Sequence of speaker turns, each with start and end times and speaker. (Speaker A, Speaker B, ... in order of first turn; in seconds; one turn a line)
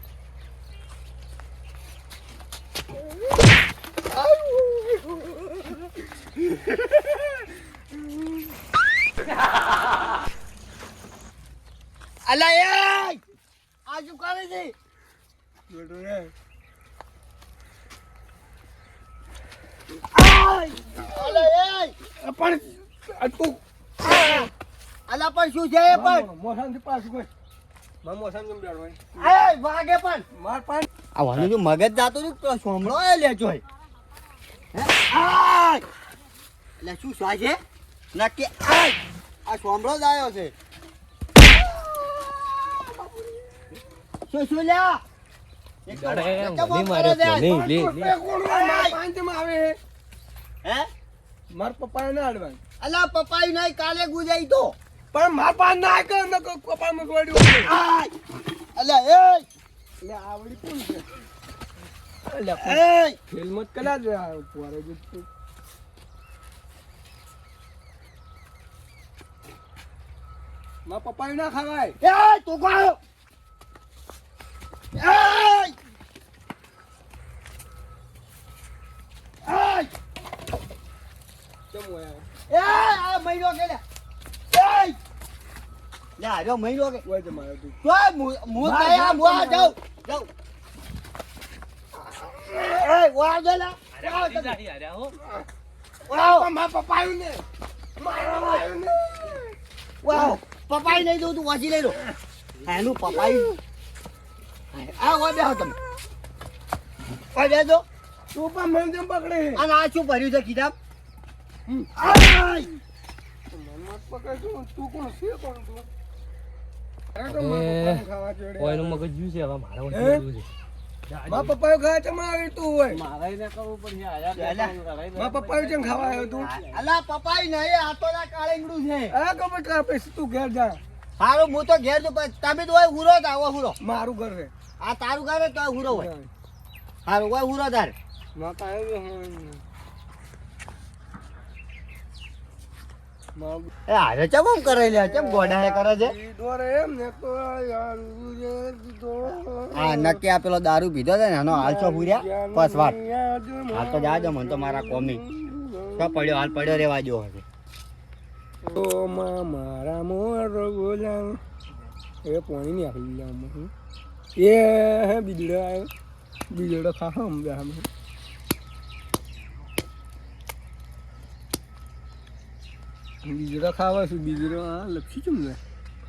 Speaker A: 4.1-5.5
Speaker B: 12.3-13.2
Speaker B: 13.9-14.7
Speaker A: 15.7-16.3
Speaker B: 20.1-21.9
Speaker A: 21.1-21.5
Speaker A: 22.2-24.5
Speaker B: 24.0-24.5
Speaker B: 25.1-26.3
Speaker A: 25.9-27.3
Speaker A: 28.0-29.0
Speaker B: 29.1-30.2
Speaker A: 30.3-30.9
Speaker B: 31.1-33.6
Speaker B: 34.7-35.9
Speaker B: 36.8-37.6
Speaker B: 38.1-40.5
Speaker A: 41.9-43.8
Speaker B: 44.3-45.0
Speaker B: 45.9-47.6
Speaker C: 45.9-48.2
Speaker A: 47.6-49.8
Speaker B: 48.5-49.0
Speaker B: 50.6-50.9
Speaker A: 51.5-52.6
Speaker B: 52.8-54.8
Speaker A: 55.1-57.7
Speaker B: 57.6-58.1
Speaker B: 58.8-59.5
Speaker A: 60.0-61.1
Speaker A: 62.3-65.3
Speaker B: 62.6-63.2
Speaker A: 70.9-72.0
Speaker B: 72.0-73.0
Speaker B: 75.0-75.8
Speaker B: 79.4-79.9
Speaker A: 81.7-82.3
Speaker B: 82.5-83.8
Speaker B: 84.5-85.0
Speaker B: 86.2-87.0
Speaker A: 87.0-87.8
Speaker B: 87.8-90.3
Speaker A: 88.6-89.7
Speaker A: 92.2-92.7
Speaker B: 92.6-94.6
Speaker C: 93.9-95.2
Speaker A: 95.2-95.5
Speaker B: 96.1-96.5
Speaker A: 96.1-97.4
Speaker A: 98.0-99.5
Speaker B: 100.0-102.0
Speaker A: 100.1-100.4
Speaker B: 102.6-103.5
Speaker A: 103.0-103.5
Speaker B: 104.7-105.8
Speaker B: 107.3-107.8
Speaker A: 108.3-109.7
Speaker B: 109.6-110.8
Speaker A: 111.7-112.2
Speaker B: 112.0-112.7
Speaker A: 113.5-115.9
Speaker A: 117.2-119.1
Speaker C: 117.2-118.1
Speaker C: 118.6-120.5
Speaker A: 119.9-120.3
Speaker C: 121.1-121.5
Speaker A: 121.3-123.0
Speaker D: 122.9-126.8
Speaker B: 124.4-124.8
Speaker A: 125.1-126.5
Speaker B: 126.4-129.2
Speaker A: 129.1-130.8
Speaker B: 131.2-133.8
Speaker A: 133.8-134.5
Speaker B: 134.8-136.1
Speaker A: 135.9-136.3
Speaker B: 137.1-137.9
Speaker A: 138.3-139.6
Speaker A: 143.3-143.7
Speaker B: 143.9-146.2
Speaker A: 144.6-150.2
Speaker B: 149.7-153.0
Speaker A: 151.5-156.8
Speaker B: 153.7-155.2
Speaker B: 156.0-157.4
Speaker A: 158.6-161.4
Speaker A: 162.2-163.7
Speaker A: 164.4-165.9
Speaker A: 166.5-167.9
Speaker A: 173.2-175.6